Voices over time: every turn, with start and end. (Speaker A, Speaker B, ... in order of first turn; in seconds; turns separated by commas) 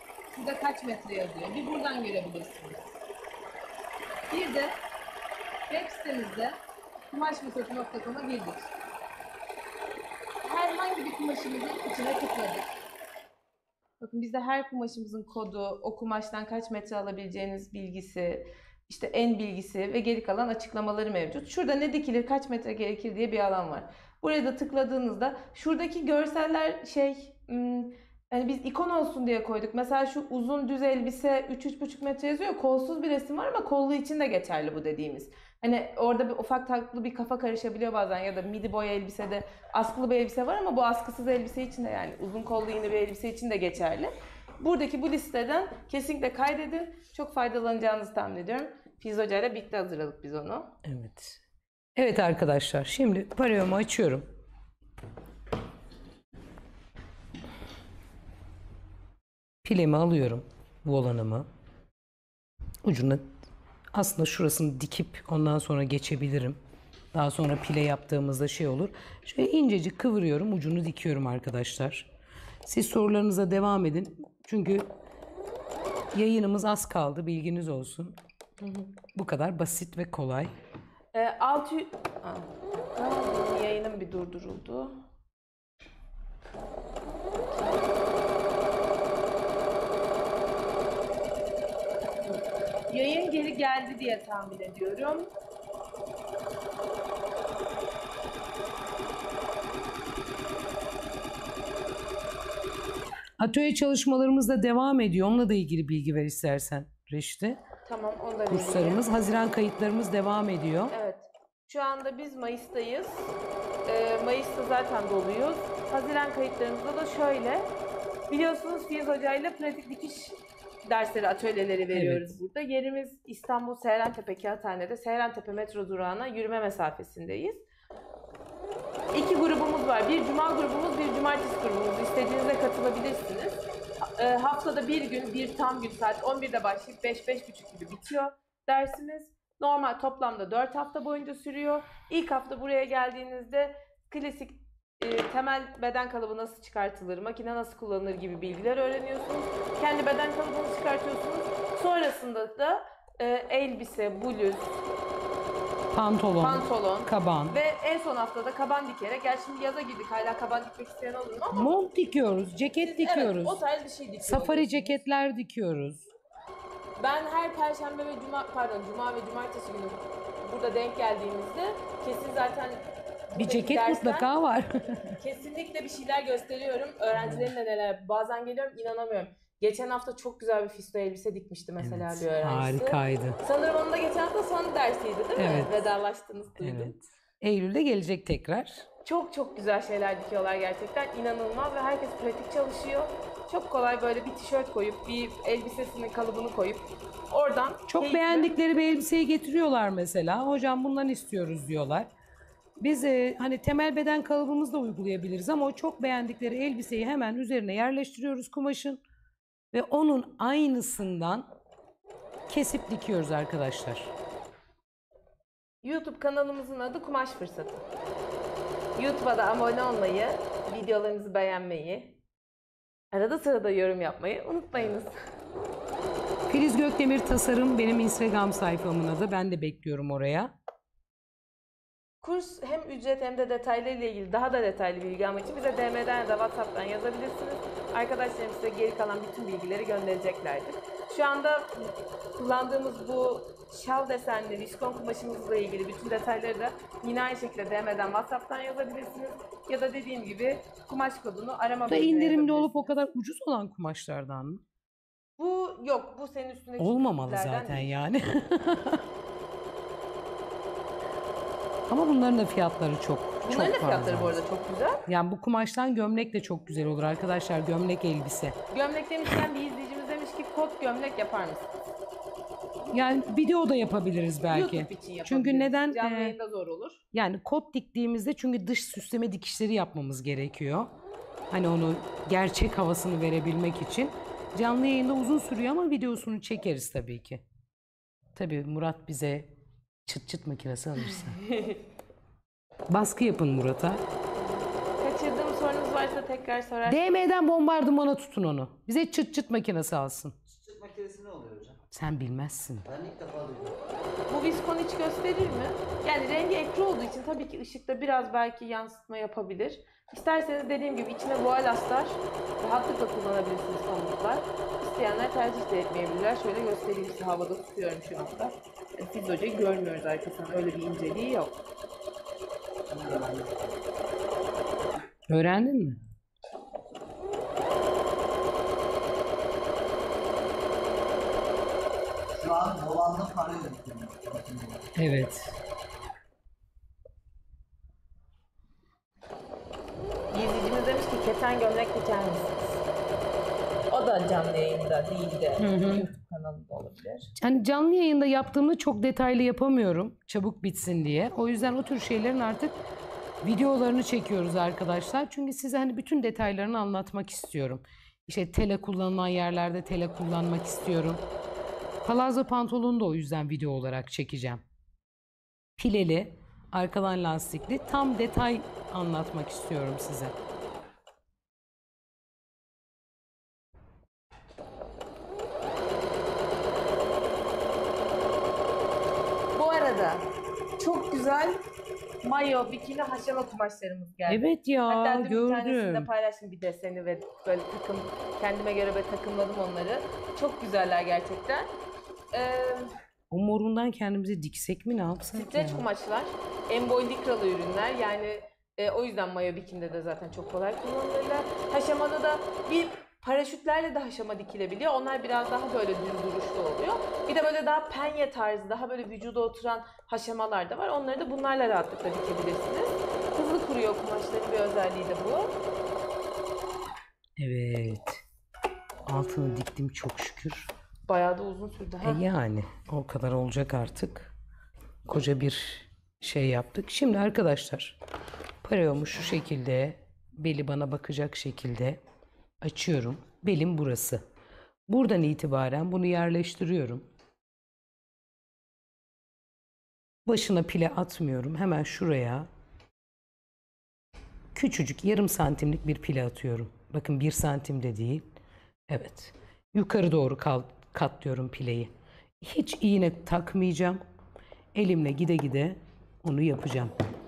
Speaker A: 0.3-2.9, Speaker A: 4.3-4.8, Speaker A: 5.7-6.6, Speaker A: 7.1-8.7, Speaker A: 10.4-12.7, Speaker A: 14.0-50.7, Speaker B: 50.8-51.4, Speaker B: 52.0-54.3, Speaker B: 59.6-61.5, Speaker B: 62.8-63.3, Speaker B: 63.9-66.6, Speaker B: 67.1-72.1, Speaker B: 72.7-74.9, Speaker B: 76.1-78.2, Speaker A: 78.6-78.9, Speaker B: 79.1-80.5, Speaker A: 81.1-85.0, Speaker A: 87.5-87.9, Speaker A: 92.9-95.3, Speaker B: 103.4-107.6, Speaker A: 107.8-109.2, Speaker B: 108.5-110.9, Speaker A: 110.9-113.3, Speaker A: 113.9-117.7, Speaker A: 118.3-127.6, Speaker B: 121.9-122.3, Speaker A: 129.1-133.6, Speaker A: 134.2-154.8, Speaker B: 155.9-157.6, Speaker A: 156.4-161.8, Speaker B: 161.5-163.6, Speaker A: 162.8-165.0, Speaker B: 164.2-166.1, Speaker A: 167.0-174.3, Speaker B: 173.4-175.2, Speaker A: 175.2-187.0, Speaker B: 181.8-183.4, Speaker B: 185.4-185.7, Speaker B: 186.6-188.9, Speaker A: 189.1-198.6, Speaker B: 197.9-202.1, Speaker B: 202.8-209.0, Speaker B: 209.7-211.5, Speaker B: 212.5-214.1, Speaker A: 215.8-217.8, Speaker A: 219.0-222.2, Speaker A: 223.1-225.2, Speaker B: 226.5-230.5, Speaker A: 232.2-252.9, Speaker B: 251.9-254.6, Speaker A: 255.4-257.9, Speaker B: 256.8-259.1, Speaker B: 261.9-264.4, Speaker A: 263.4-265.0, Speaker B: 265.1-268.6, Speaker A: 268.7-271.7, Speaker B: 272.9-276.4, Speaker A: 274.5-277.0, Speaker B: 277.1-280.9, Speaker B: 281.5-287.4, Speaker B: 288.4-289.5, Speaker B: 290.1-291.4, Speaker A: 291.1-291.8, Speaker B: 292.9-294.0, Speaker A: 295.0-297.2, Speaker B: 296.9-300.4, Speaker C: 300.5-301.8, Speaker B: 301.9-302.9, Speaker C: 302.9-303.8, Speaker A: 304.3-321.6, Speaker C: 322.9-323.8, Speaker B: 325.3-326.0, Speaker C: 332.4-334.8, Speaker B: 335.0-335.6, Speaker A: 340.3-342.8, Speaker A: 343.9-347.3, Speaker B: 345.6-346.1, Speaker B: 347.4-352.7, Speaker B: 353.4-361.2, Speaker B: 362.0-364.6, Speaker B: 365.8-370.4, Speaker A: 379.5-381.6, Speaker A: 382.2-391.7, Speaker B: 384.3-386.1, Speaker A: 392.3-392.9, Speaker B: 393.3-395.9, Speaker A: 395.3-415.6, Speaker B: 417.4-418.2, Speaker B: 419.1-420.7, Speaker A: 421.1-422.2, Speaker B: 422.0-424.3, Speaker B: 425.1-428.0, Speaker B: 428.6-432.0, Speaker B: 432.6-434.2, Speaker B: 434.9-437.1, Speaker B: 440.3-442.5, Speaker B: 444.5-448.3, Speaker B: 448.9-454.0, Speaker B: 454.7-457.0